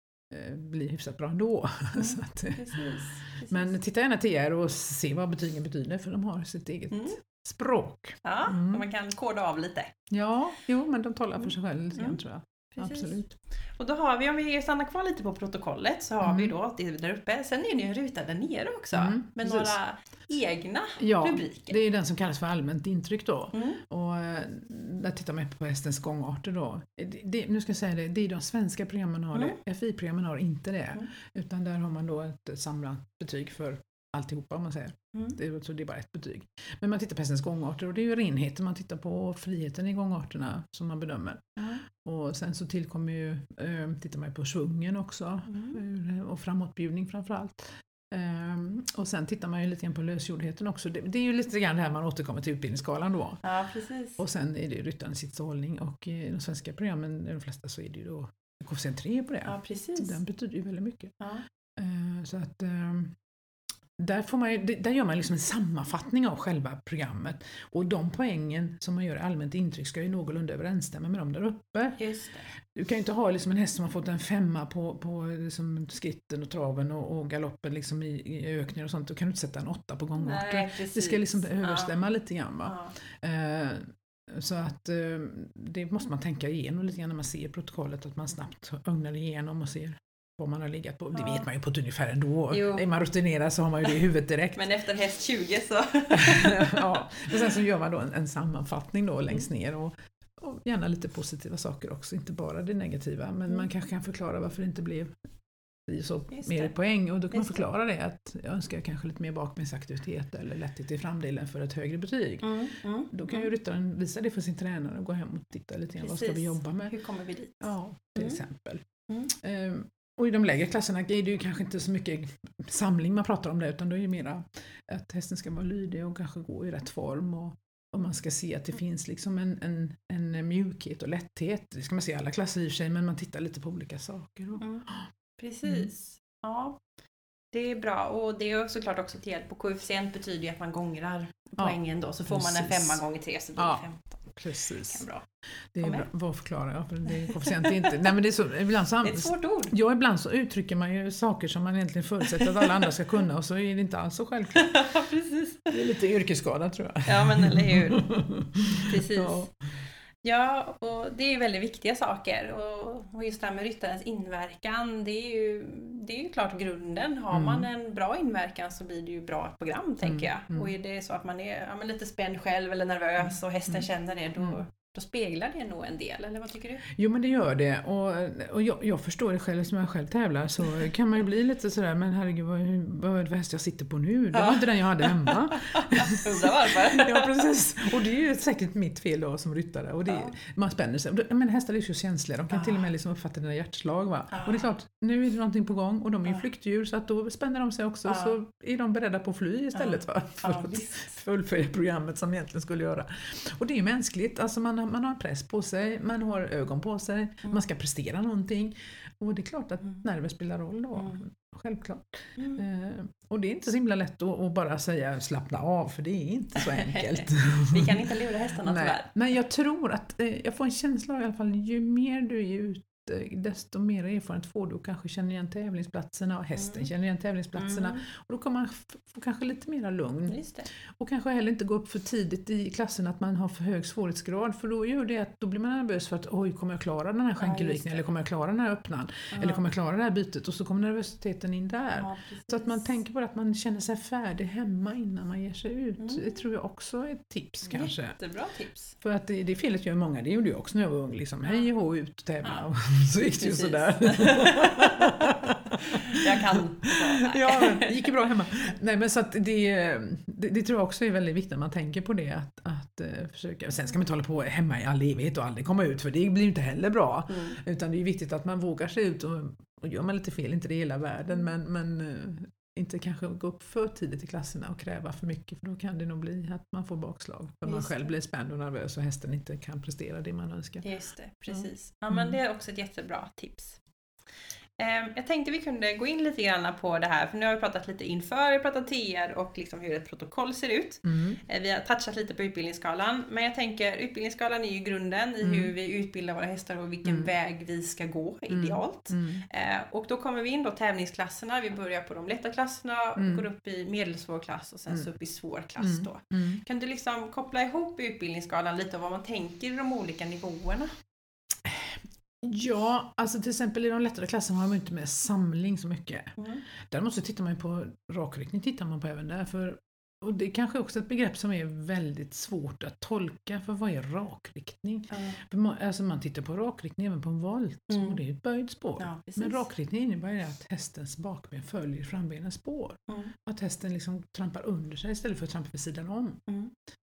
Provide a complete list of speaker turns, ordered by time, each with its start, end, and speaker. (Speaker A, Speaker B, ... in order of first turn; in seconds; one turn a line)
Speaker A: 0.3-8.8
Speaker B: 1.9-3.7
Speaker B: 6.9-7.2
Speaker B: 8.2-9.9
Speaker A: 10.1-13.4
Speaker B: 12.7-13.2
Speaker B: 13.8-21.8
Speaker A: 16.2-16.5
Speaker A: 18.9-19.8
Speaker A: 21.0-53.4
Speaker B: 23.5-23.8
Speaker B: 45.5-45.8
Speaker B: 53.4-54.2
Speaker A: 54.2-61.1
Speaker B: 59.5-60.1
Speaker B: 61.2-61.4
Speaker A: 61.8-63.1
Speaker A: 64.0-72.0
Speaker B: 72.0-72.5
Speaker A: 72.6-94.6
Speaker B: 80.2-81.9
Speaker B: 82.6-82.9
Speaker B: 91.1-91.5
Speaker B: 92.5-92.8
Speaker B: 94.5-97.0
Speaker A: 96.1-105.2
Speaker A: 105.9-112.6
Speaker B: 106.3-106.7
Speaker B: 107.3-107.6
Speaker B: 112.4-113.5
Speaker A: 113.1-116.9
Speaker B: 116.0-118.4
Speaker A: 117.6-135.1
Speaker B: 134.6-134.8
Speaker B: 135.4-136.8
Speaker A: 135.6-135.9
Speaker B: 137.5-144.2
Speaker A: 141.6-143.0
Speaker A: 143.6-145.1
Speaker B: 144.9-145.2
Speaker A: 145.7-154.8
Speaker B: 145.8-146.1
Speaker B: 147.1-148.1
Speaker B: 149.0-149.7
Speaker B: 152.3-152.8
Speaker B: 154.5-155.7
Speaker A: 155.7-159.5
Speaker B: 157.1-158.1
Speaker B: 158.7-159.5
Speaker B: 160.2-176.8
Speaker A: 167.3-167.7
Speaker A: 170.0-170.7
Speaker A: 176.9-218.1
Speaker B: 184.3-187.4
Speaker B: 190.1-190.3
Speaker B: 192.5-192.8
Speaker B: 194.3-194.7
Speaker B: 198.1-198.3
Speaker B: 199.7-201.2
Speaker B: 210.9-211.2
Speaker B: 212.4-212.6
Speaker B: 216.6-219.1
Speaker A: 218.6-248.2
Speaker B: 226.6-226.8
Speaker B: 227.6-228.0
Speaker B: 230.3-230.7
Speaker B: 237.4-238.1
Speaker B: 239.3-239.6
Speaker B: 241.9-242.9
Speaker B: 246.0-246.2
Speaker B: 247.7-248.9
Speaker A: 249.0-280.8
Speaker B: 253.4-258.3
Speaker B: 267.3-267.6
Speaker B: 277.7-278.0
Speaker B: 280.8-283.8
Speaker A: 281.5-282.4
Speaker B: 284.8-310.9
Speaker A: 291.0-291.4
Speaker A: 295.4-295.7
Speaker A: 297.1-297.3
Speaker A: 298.5-299.4
Speaker A: 303.2-303.4
Speaker A: 305.8-306.6
Speaker A: 311.6-336.4
Speaker B: 316.4-316.6
Speaker B: 325.1-325.4
Speaker B: 327.9-328.2
Speaker B: 329.0-329.7
Speaker B: 333.1-333.3
Speaker B: 336.5-336.7